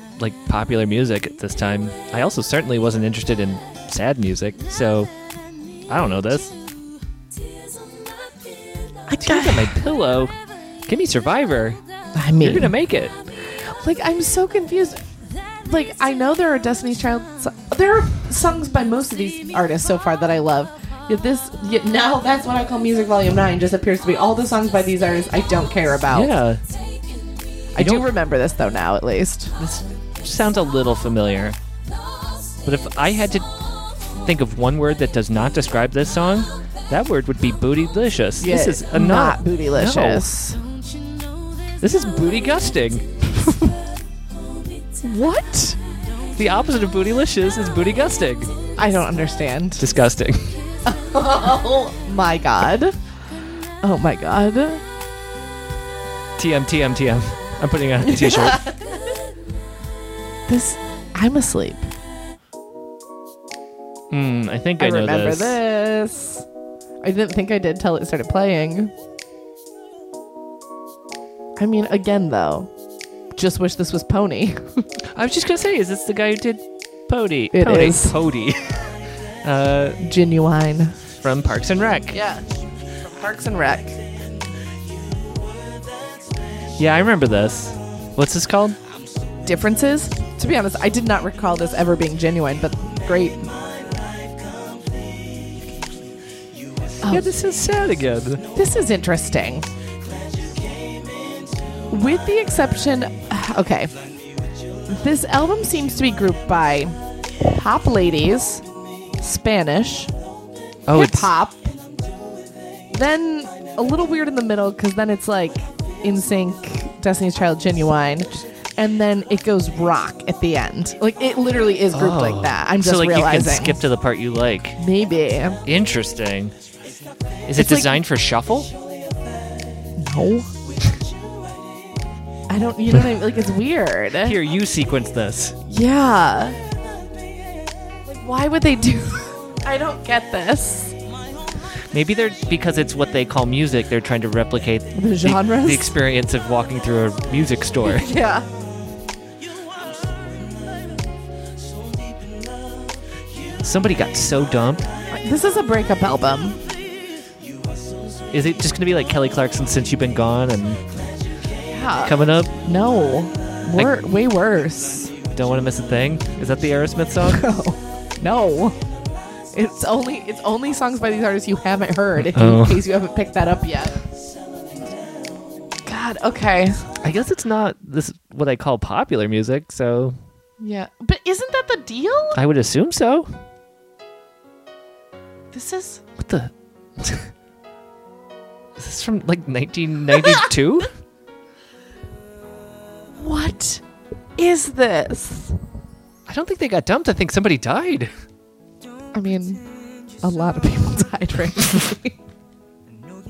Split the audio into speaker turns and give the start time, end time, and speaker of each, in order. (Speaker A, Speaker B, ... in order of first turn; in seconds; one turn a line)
Speaker A: 0.2-5.1
Speaker A: 5.9-6.5
Speaker B: 9.1-9.8
Speaker A: 9.2-10.3
Speaker A: 10.9-11.8
Speaker B: 12.2-12.7
Speaker A: 12.4-13.1
Speaker B: 13.5-15.0
Speaker B: 15.7-26.3
Speaker A: 26.1-26.6
Speaker B: 27.8-29.6
Speaker A: 27.8-28.1
Speaker A: 29.6-31.6
Speaker A: 32.6-40.3
Speaker B: 38.4-40.6
Speaker A: 41.8-43.2
Speaker B: 45.0-45.8
Speaker A: 46.4-48.5
Speaker B: 48.8-49.8
Speaker A: 49.8-50.6
Speaker B: 50.9-53.0
Speaker B: 53.8-54.8
Speaker A: 56.4-58.6
Speaker B: 58.1-58.8
Speaker B: 60.5-61.9
Speaker A: 64.1-65.6
Speaker B: 64.8-66.5
Speaker B: 67.0-68.9
Speaker B: 71.6-72.7
Speaker B: 73.3-74.9
Speaker A: 75.1-80.0
Speaker B: 77.5-78.2
Speaker B: 80.0-81.0
Speaker A: 81.2-82.2
Speaker B: 82.1-82.4
Speaker B: 83.0-84.0
Speaker A: 86.8-88.8
Speaker B: 89.5-93.6
Speaker A: 97.1-98.4
Speaker B: 98.5-99.7
Speaker B: 101.9-103.9
Speaker B: 104.9-107.0
Speaker B: 107.5-108.7
Speaker B: 109.2-110.1
Speaker A: 110.9-111.3
Speaker B: 110.9-111.7
Speaker B: 112.9-123.8
Speaker A: 121.9-124.8
Speaker B: 124.8-125.6
Speaker A: 125.7-126.5
Speaker A: 127.5-128.7
Speaker B: 127.6-128.0
Speaker B: 130.0-130.5
Speaker B: 132.5-134.4
Speaker A: 134.2-135.6
Speaker B: 135.7-136.6
Speaker B: 138.1-141.0
Speaker A: 141.9-148.1
Speaker B: 144.9-145.9
Speaker B: 147.8-148.5
Speaker A: 153.6-154.9
Speaker B: 155.1-156.6
Speaker A: 158.3-160.8
Speaker B: 161.7-165.1
Speaker A: 162.0-162.5
Speaker A: 165.3-167.4
Speaker B: 167.3-168.8
Speaker B: 169.5-174.0
Speaker A: 172.3-172.8
Speaker B: 175.9-176.8
Speaker A: 177.0-180.2
Speaker B: 180.6-182.4
Speaker A: 182.3-183.3
Speaker B: 185.5-186.0
Speaker A: 186.2-187.3
Speaker A: 188.8-190.9
Speaker B: 193.2-193.8
Speaker B: 194.4-195.6
Speaker A: 196.3-198.1
Speaker B: 199.1-199.6
Speaker B: 200.2-202.2